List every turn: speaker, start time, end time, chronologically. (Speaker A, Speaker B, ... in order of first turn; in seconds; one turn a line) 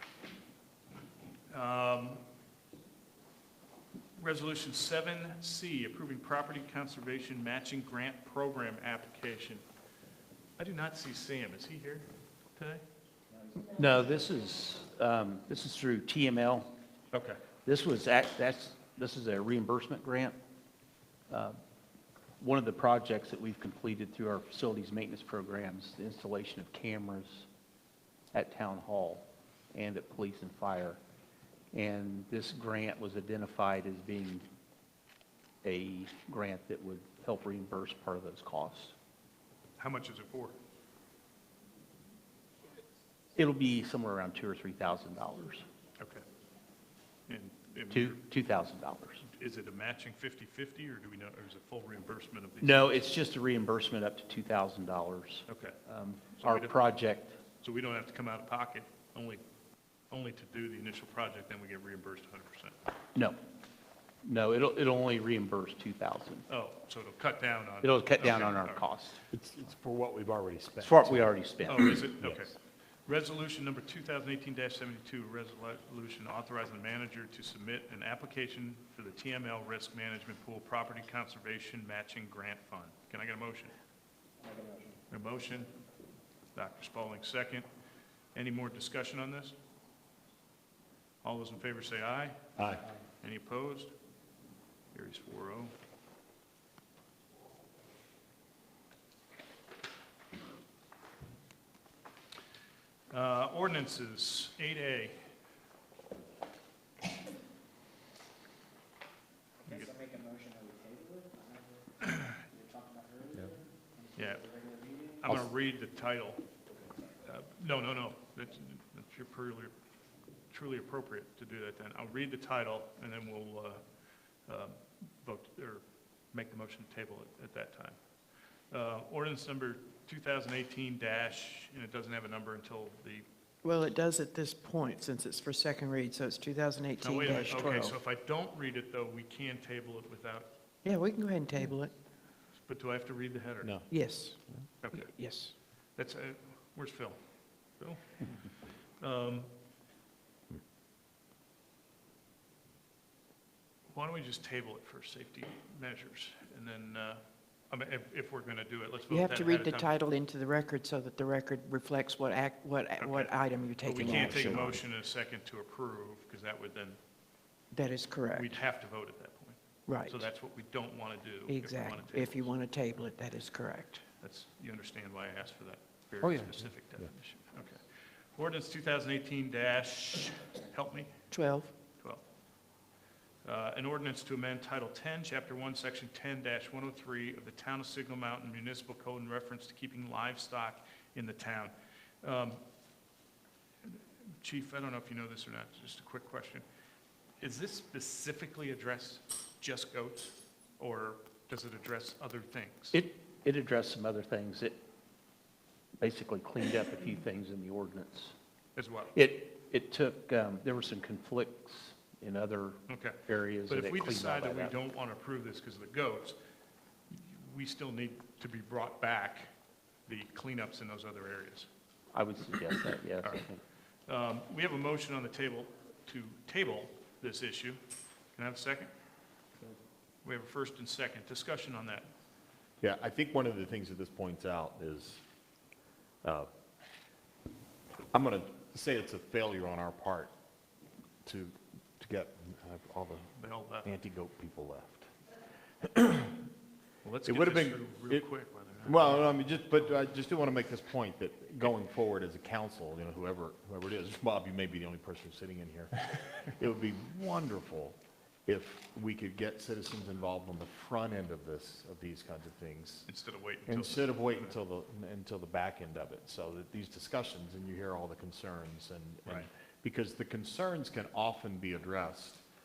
Speaker A: 1.5-2.2
Speaker A: 4.2-9.6
Speaker A: 10.6-12.8
Speaker B: 13.6-16.7
Speaker A: 17.1-17.4
Speaker B: 17.6-20.4
Speaker B: 21.3-21.6
Speaker B: 22.4-27.5
Speaker B: 28.3-31.0
Speaker B: 31.7-34.5
Speaker B: 35.6-38.9
Speaker A: 39.8-40.6
Speaker B: 43.3-45.6
Speaker A: 46.0-46.2
Speaker A: 47.3-48.2
Speaker B: 47.9-49.2
Speaker A: 49.2-53.0
Speaker B: 52.6-57.4
Speaker A: 55.5-55.8
Speaker A: 56.4-56.8
Speaker A: 57.5-59.4
Speaker A: 60.1-62.7
Speaker B: 64.2-66.5
Speaker A: 66.5-68.8
Speaker B: 67.8-69.2
Speaker C: 69.3-71.3
Speaker B: 70.8-72.0
Speaker A: 71.7-83.7
Speaker C: 72.0-72.5
Speaker D: 84.5-84.8
Speaker A: 85.1-85.7
Speaker A: 86.5-87.7
Speaker A: 88.3-89.5
Speaker A: 91.2-92.5
Speaker C: 92.6-92.8
Speaker A: 93.2-93.9
Speaker A: 94.9-95.7
Speaker A: 103.1-105.2
Speaker A: 109.7-110.0
Speaker D: 110.0-111.6
Speaker D: 112.6-113.3
Speaker A: 114.2-116.4
Speaker A: 117.2-119.7
Speaker A: 120.5-123.8
Speaker A: 124.5-128.0
Speaker A: 128.7-133.2
Speaker E: 133.6-137.9
Speaker A: 137.0-140.5
Speaker E: 140.8-141.9
Speaker A: 142.6-143.7
Speaker C: 143.6-143.9
Speaker E: 143.9-145.5
Speaker A: 144.8-145.2
Speaker A: 145.9-147.2
Speaker A: 147.8-149.5
Speaker A: 153.9-159.9
Speaker E: 159.1-164.8
Speaker A: 163.0-167.0
Speaker C: 163.8-164.7
Speaker E: 167.7-168.6
Speaker A: 168.3-172.5
Speaker E: 169.9-170.3
Speaker E: 171.5-174.0
Speaker A: 174.2-181.3
Speaker C: 176.2-177.1
Speaker E: 181.3-181.7
Speaker A: 183.4-192.6
Speaker A: 193.8-196.6
Speaker A: 197.4-203.0
Speaker B: 202.9-204.8
Speaker B: 206.0-208.3
Speaker A: 208.8-209.2
Speaker B: 209.1-214.8
Speaker A: 212.9-216.4
Speaker A: 217.1-219.5
Speaker A: 220.1-221.7
Speaker B: 222.1-223.6
Speaker A: 224.1-227.8
Speaker A: 228.3-228.9
Speaker A: 230.2-232.1
Speaker C: 232.8-235.2
Speaker C: 236.2-236.5
Speaker C: 238.1-240.3
Speaker C: 241.2-245.1
Speaker A: 243.4-243.9
Speaker C: 245.8-246.5
Speaker A: 247.0-249.9
Speaker C: 247.2-248.3
Speaker C: 248.8-263.1
Speaker A: 263.1-264.6
Speaker C: 263.7-272.4